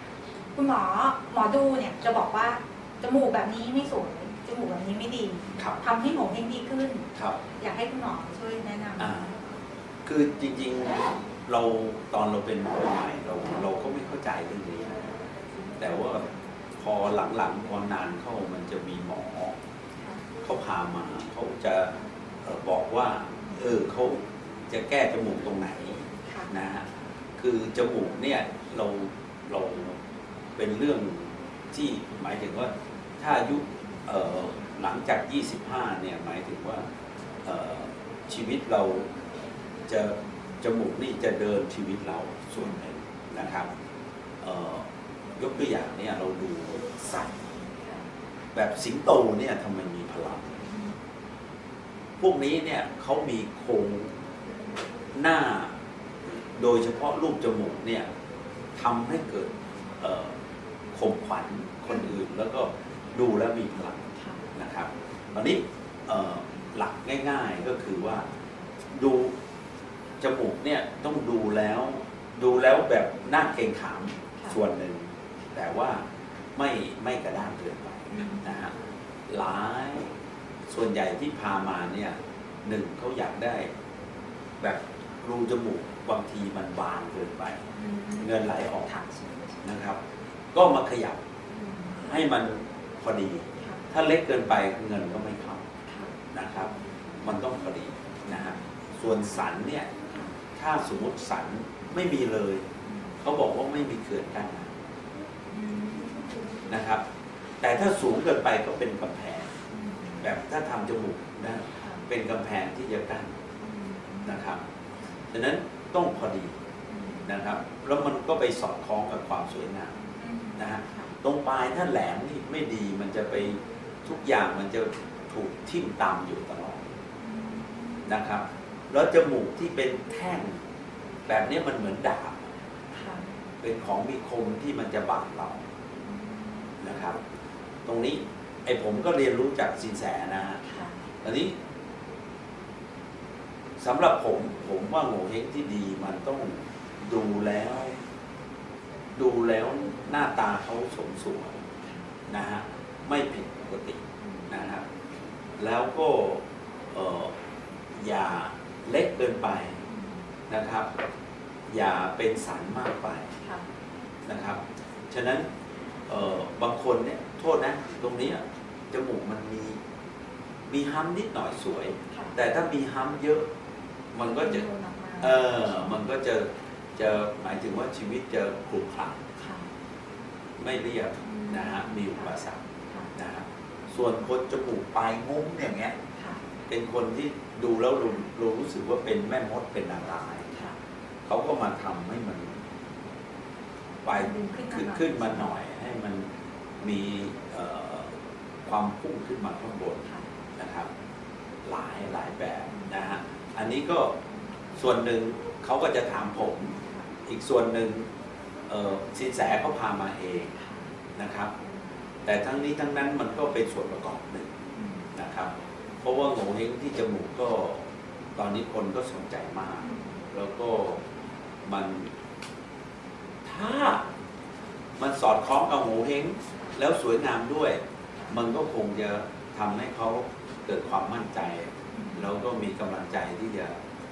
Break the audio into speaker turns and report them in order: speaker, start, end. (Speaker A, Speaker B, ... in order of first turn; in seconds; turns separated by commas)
Speaker A: 0.5-7.0, Speaker B: 7.1-7.4, Speaker A: 7.6-9.2, Speaker B: 9.0-9.3, Speaker B: 10.0-15.0, Speaker B: 15.8-16.2, Speaker B: 16.8-19.5, Speaker B: 20.4-30.0, Speaker B: 30.6-36.8, Speaker B: 37.4-39.1, Speaker B: 39.9-43.7, Speaker B: 44.4-44.8, Speaker B: 45.4-47.3, Speaker B: 48.5-50.6, Speaker B: 52.2-54.1, Speaker B: 55.1-55.7, Speaker B: 56.3-58.0, Speaker B: 58.7-59.5, Speaker B: 60.0-60.3, Speaker B: 60.9-68.2, Speaker B: 68.9-69.3, Speaker B: 70.2-76.0, Speaker B: 76.5-78.7, Speaker A: 78.1-78.5, Speaker B: 79.3-80.1, Speaker B: 80.7-82.1, Speaker B: 82.7-83.7, Speaker B: 84.6-87.6, Speaker A: 87.7-88.3, Speaker B: 88.2-88.9, Speaker A: 88.8-89.6, Speaker B: 89.6-90.0, Speaker B: 90.5-91.2, Speaker A: 91.5-92.1, Speaker B: 92.0-95.6, Speaker B: 96.3-96.7, Speaker B: 97.2-99.9, Speaker B: 100.5-102.7, Speaker B: 103.2-104.7, Speaker A: 105.5-106.4, Speaker B: 106.7-107.0, Speaker B: 107.6-109.5, Speaker A: 109.7-110.2, Speaker B: 110.2-113.3, Speaker A: 113.6-114.3, Speaker B: 114.2-114.6, Speaker B: 115.3-116.5, Speaker A: 116.9-117.3, Speaker B: 117.2-119.9, Speaker A: 120.2-121.1, Speaker B: 120.6-126.8, Speaker A: 127.2-128.1, Speaker B: 128.0-130.6, Speaker B: 131.3-132.5, Speaker A: 132.9-133.2, Speaker B: 133.6-135.6, Speaker A: 136.1-136.4, Speaker B: 136.8-137.2, Speaker B: 137.8-140.6, Speaker A: 140.6-140.9, Speaker B: 141.2-141.5, Speaker B: 143.8-147.9, Speaker B: 149.2-151.6, Speaker B: 152.3-154.8, Speaker B: 155.6-157.3, Speaker B: 158.0-159.8, Speaker B: 160.5-160.9, Speaker B: 161.7-163.3, Speaker B: 164.3-165.4, Speaker B: 166.1-169.8, Speaker B: 170.7-173.4, Speaker B: 174.1-174.7, Speaker A: 174.2-175.7, Speaker B: 175.2-179.2, Speaker A: 179.3-179.7, Speaker B: 180.6-182.6, Speaker A: 181.2-182.3, Speaker A: 182.8-183.1, Speaker B: 183.2-185.9, Speaker A: 186.2-186.4, Speaker B: 186.7-190.5, Speaker B: 191.2-192.5, Speaker B: 194.0-196.2, Speaker A: 194.1-195.4, Speaker B: 196.8-198.1, Speaker B: 198.6-200.0, Speaker B: 200.6-200.9, Speaker B: 201.6-204.1, Speaker B: 204.8-208.1, Speaker A: 206.8-207.0, Speaker B: 208.7-210.5, Speaker A: 210.6-210.8, Speaker B: 211.2-211.5, Speaker B: 212.2-214.5, Speaker A: 214.8-215.1, Speaker B: 215.2-215.5, Speaker B: 216.0-221.0, Speaker A: 219.8-220.1, Speaker B: 221.6-222.1, Speaker B: 223.4-224.0, Speaker B: 225.0-233.7, Speaker A: 231.9-232.2